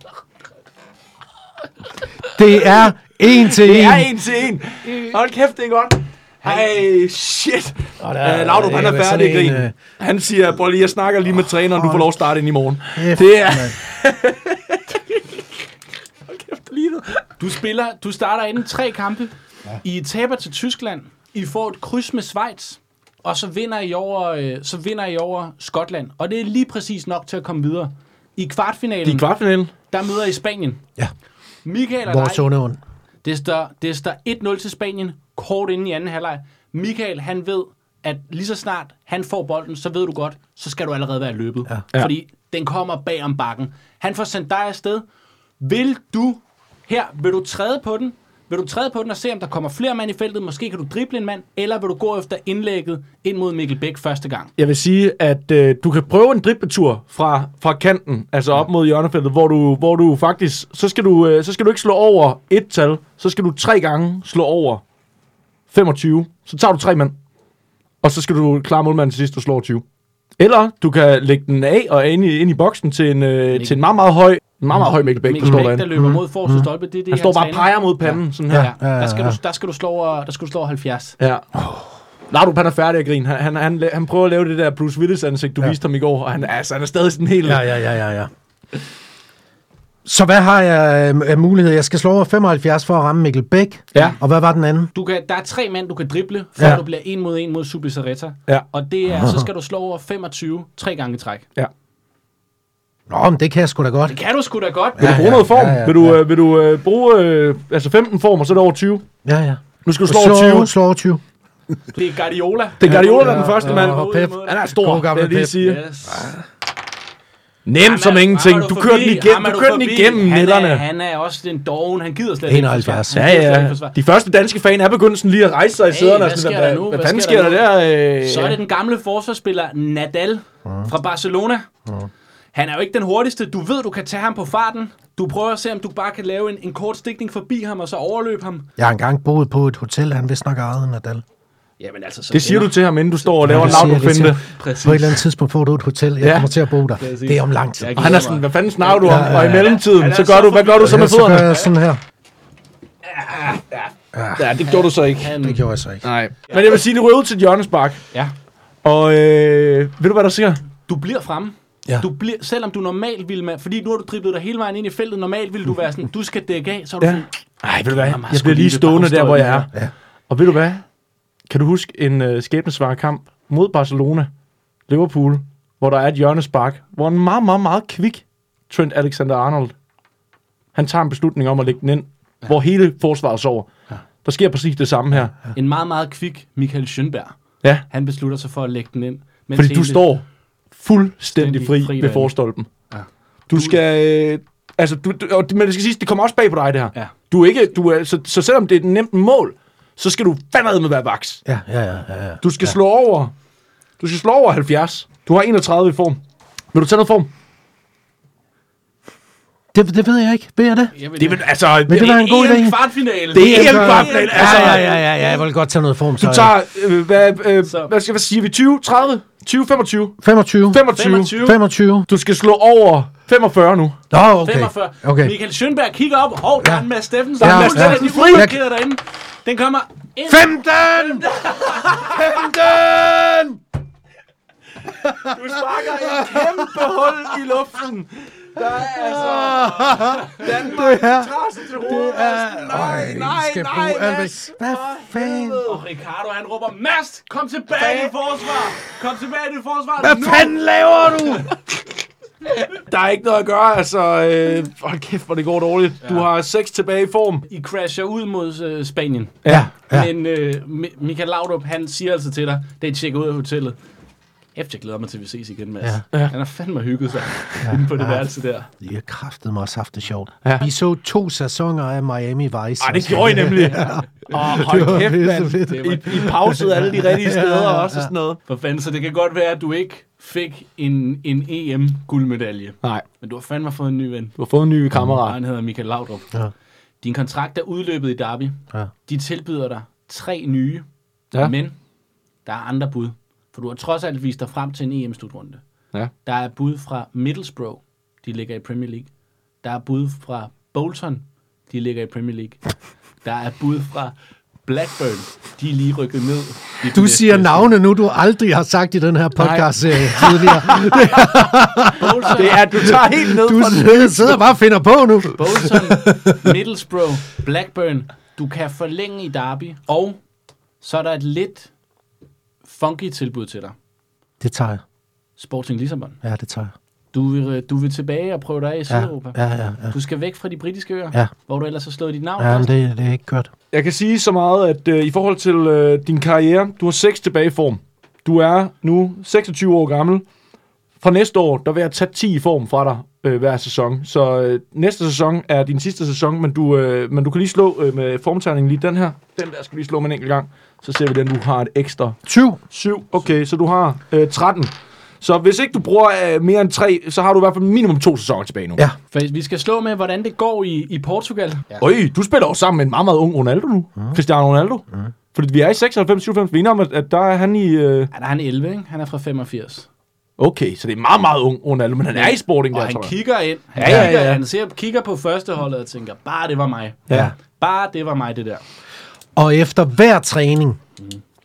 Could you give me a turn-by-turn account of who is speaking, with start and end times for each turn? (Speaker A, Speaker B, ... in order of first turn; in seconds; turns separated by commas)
Speaker A: 2.2-4.1, Speaker B: 3.3-15.4, Speaker A: 8.0-9.7, Speaker A: 11.7-12.1, Speaker A: 12.9-13.8, Speaker B: 16.3-17.2, Speaker C: 17.4-29.2, Speaker B: 29.0-29.7, Speaker C: 29.9-30.8, Speaker C: 31.6-32.5, Speaker A: 32.1-32.8, Speaker C: 33.2-45.0, Speaker C: 45.6-54.5, Speaker B: 54.6-64.8, Speaker B: 65.7-67.2, Speaker B: 68.0-69.8, Speaker B: 70.4-75.9, Speaker C: 73.5-73.8, Speaker C: 75.2-81.2, Speaker A: 75.4-76.7, Speaker B: 77.1-78.7, Speaker A: 78.5-79.4, Speaker B: 81.2-81.5, Speaker B: 82.3-87.7, Speaker A: 87.4-88.3, Speaker A: 90.0-94.9, Speaker C: 94.9-101.5, Speaker A: 99.1-99.5, Speaker A: 103.1-104.2, Speaker C: 104.1-105.2, Speaker A: 105.0-106.2, Speaker B: 105.0-109.0, Speaker A: 109.2-111.2, Speaker B: 109.8-110.7, Speaker C: 111.9-114.6, Speaker B: 112.8-115.8, Speaker A: 112.9-116.3, Speaker C: 115.6-116.3, Speaker B: 117.7-120.8, Speaker C: 117.8-124.0, Speaker A: 122.5-123.2, Speaker B: 123.1-128.6, Speaker C: 125.9-127.7, Speaker C: 128.2-131.7, Speaker A: 130.6-130.9, Speaker C: 132.5-138.7, Speaker A: 138.8-141.2, Speaker C: 141.8-145.2, Speaker B: 142.3-144.4, Speaker A: 143.4-148.1, Speaker B: 146.2-146.5, Speaker C: 147.0-151.7, Speaker B: 147.9-151.5, Speaker A: 149.0-149.8, Speaker A: 150.8-152.0, Speaker C: 153.0-153.9, Speaker A: 154.1-154.5, Speaker B: 154.3-155.4, Speaker C: 154.7-155.6, Speaker A: 155.3-156.0, Speaker B: 156.0-158.0, Speaker B: 158.8-160.6, Speaker C: 160.9-167.3, Speaker B: 167.0-169.7, Speaker C: 167.9-169.7, Speaker B: 170.3-170.8, Speaker B: 171.5-174.3, Speaker B: 174.9-179.7, Speaker B: 180.7-183.7, Speaker B: 184.2-185.4, Speaker C: 185.5-187.4, Speaker C: 187.9-190.1, Speaker B: 189.6-190.2, Speaker B: 190.7-192.7, Speaker C: 191.3-192.3, Speaker C: 192.9-193.8, Speaker B: 193.5-201.4, Speaker A: 201.4-202.8, Speaker B: 202.4-203.3, Speaker B: 204.0-206.2, Speaker B: 206.7-207.3, Speaker A: 209.7-210.9, Speaker C: 210.9-215.3, Speaker B: 211.2-212.3, Speaker A: 211.9-212.8, Speaker B: 213.3-214.9, Speaker A: 213.3-216.5, Speaker B: 216.2-220.2, Speaker C: 217.6-217.9, Speaker A: 220.2-222.1, Speaker B: 220.7-221.4, Speaker C: 220.9-221.6, Speaker B: 222.1-224.0, Speaker A: 224.1-225.3, Speaker C: 224.4-232.2, Speaker A: 226.6-226.9, Speaker B: 227.4-228.5, Speaker A: 227.4-228.6, Speaker A: 230.3-233.6, Speaker B: 235.0-245.8, Speaker A: 235.0-237.3, Speaker A: 238.8-245.7, Speaker C: 240.1-240.4, Speaker C: 245.6-250.6, Speaker B: 247.8-248.1, Speaker A: 250.0-251.5, Speaker B: 252.6-257.4, Speaker C: 256.0-256.3, Speaker C: 257.5-263.8, Speaker B: 259.4-259.7, Speaker A: 259.5-260.1, Speaker C: 264.5-268.7, Speaker A: 267.6-268.2, Speaker A: 268.8-278.1, Speaker B: 272.8-278.4, Speaker C: 273.7-275.0, Speaker C: 275.6-276.2, Speaker C: 278.5-284.4, Speaker B: 284.4-285.4, Speaker C: 285.2-286.3, Speaker C: 287.0-291.8, Speaker C: 292.4-295.6, Speaker C: 296.2-299.1, Speaker C: 299.6-302.6, Speaker C: 303.2-307.7, Speaker A: 306.9-316.5, Speaker B: 309.4-311.2, Speaker C: 311.8-312.7, Speaker B: 312.1-314.4, Speaker C: 315.4-320.2, Speaker C: 320.8-321.7, Speaker C: 322.6-323.7, Speaker A: 324.4-324.8, Speaker C: 325.4-326.2, Speaker A: 326.2-326.7, Speaker C: 327.1-329.4, Speaker A: 328.9-329.9, Speaker C: 329.9-332.7, Speaker A: 332.4-333.5, Speaker B: 333.7-340.2, Speaker B: 341.0-352.2, Speaker A: 352.2-352.6, Speaker B: 352.7-358.8, Speaker C: 359.1-361.8, Speaker B: 361.8-368.1, Speaker C: 368.1-369.9, Speaker B: 370.4-373.1, Speaker C: 372.1-378.6, Speaker B: 373.8-374.4, Speaker B: 377.1-377.3, Speaker A: 377.1-377.3, Speaker A: 379.4-380.8